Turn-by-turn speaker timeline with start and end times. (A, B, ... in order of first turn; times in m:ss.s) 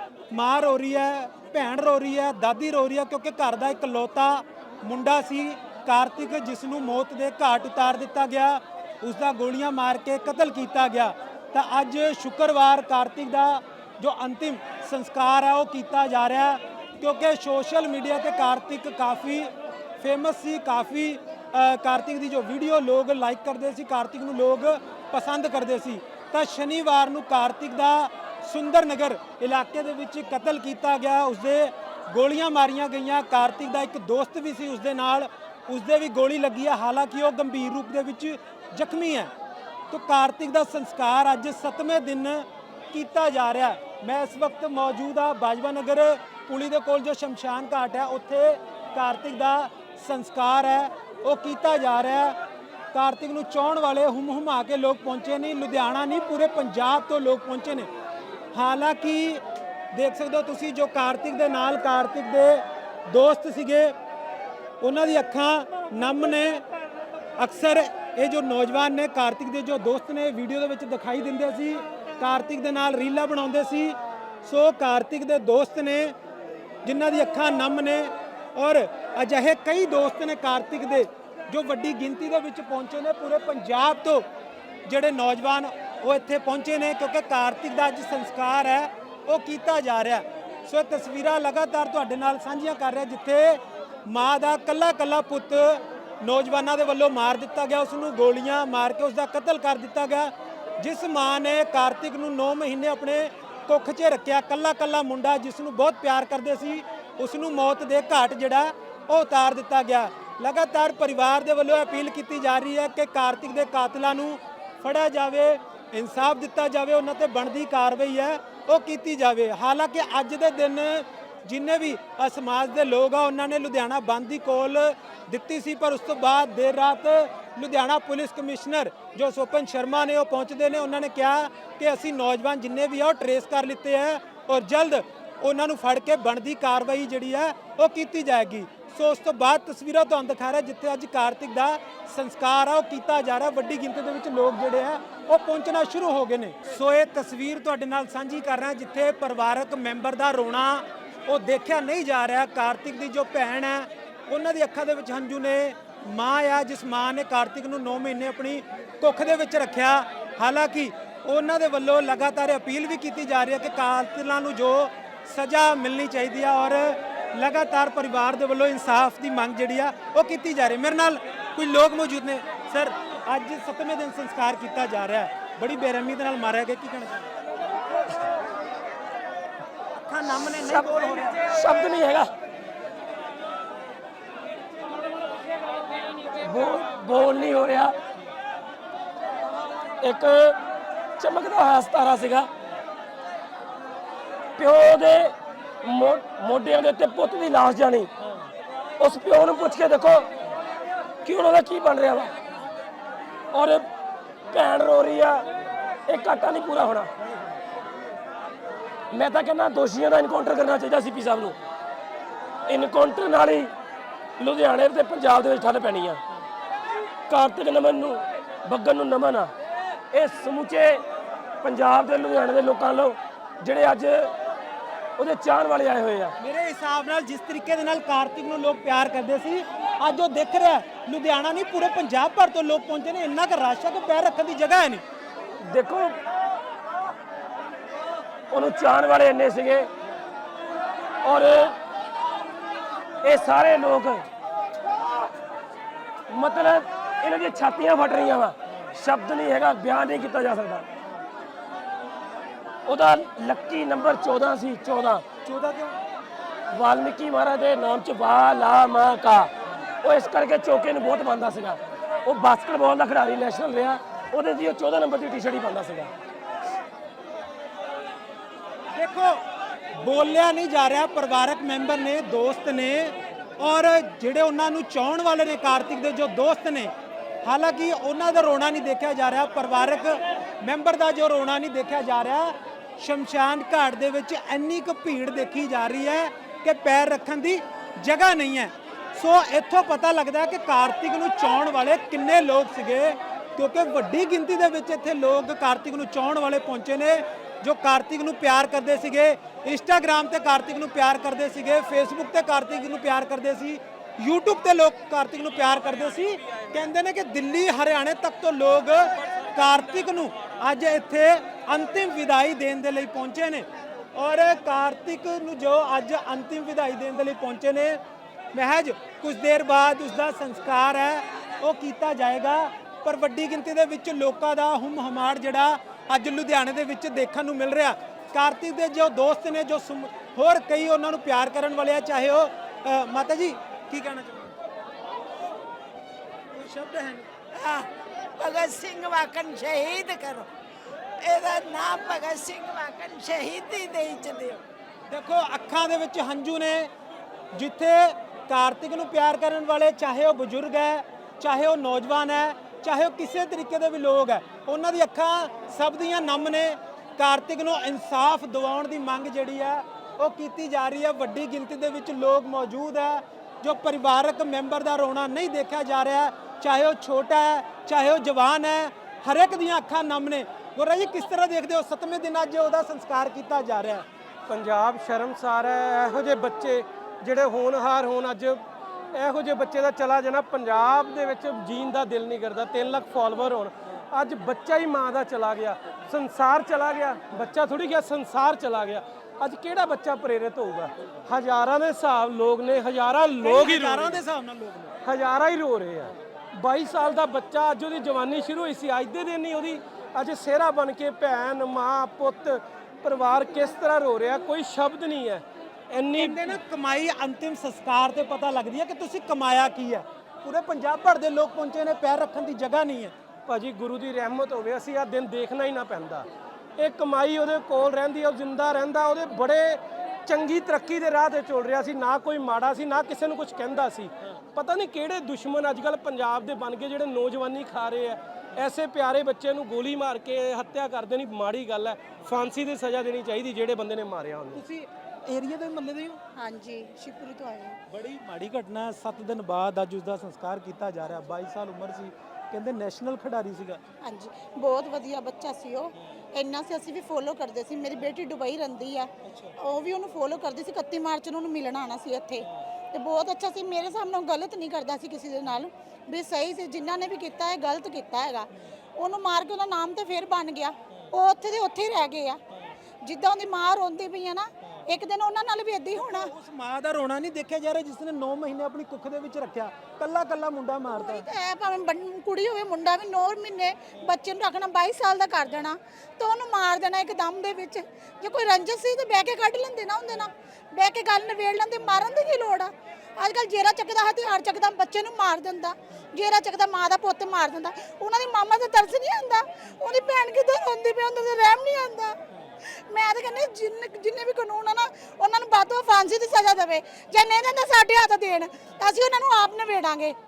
0:00.3-0:39.3 A
0:39.9-0:52.4 A
0:52.9-0:57.9 A
0:58.5-1:04.0 A
1:04.8-1:06.6 A
1:07.4-1:16.2 A
1:16.8-1:24.3 A
1:24.9-2:57.3 A
3:00.0-3:01.4 A
3:00.5-3:02.3 B
3:06.4-3:08.0 B
3:10.0-3:10.6 B
3:11.2-3:12.5 B
3:14.6-3:18.1 B
3:19.0-3:20.3 B
3:21.2-3:22.3 B
3:23.5-3:23.9 B
3:24.5-3:25.5 B
3:26.1-3:27.1 B
3:29.1-3:31.6 B
3:32.7-3:33.7 B
3:34.4-3:36.2 B
3:37.3-3:39.5 B
3:40.1-3:41.0 B
3:41.6-3:44.3 B
3:45.2-3:46.4 B
3:46.4-3:55.0 A
3:55.6-3:56.2 B
3:58.5-3:59.9 B
4:01.2-4:01.8 B
4:03.2-4:04.2 B
4:06.3-4:10.9 B
4:12.9-4:15.2 B
4:15.4-4:16.0 A
4:16.7-4:19.5 B
4:20.0-4:26.1 B
4:28.9-4:29.4 A
4:30.0-4:36.9 A
4:37.4-5:18.0 A
5:18.5-5:34.6 A
5:36.5-5:37.3 A
5:38.4-5:40.5 C
5:41.2-5:44.6 C
5:45.1-5:46.9 A
5:47.5-6:14.0 A
6:14.5-6:18.6 D
6:19.1-6:34.2 D
6:33.4-6:34.9 A
6:35.0-6:46.6 D
6:46.1-6:53.1 A
6:53.5-6:56.3 D
6:56.8-7:14.6 D
7:14.5-7:16.2 A
7:16.4-7:17.8 E
7:17.9-7:23.8 A
7:24.0-7:42.4 E
7:29.2-7:29.6 A
7:43.0-7:46.3 E
7:45.9-7:51.3 A
7:50.9-8:12.2 E
8:12.7-8:20.2 E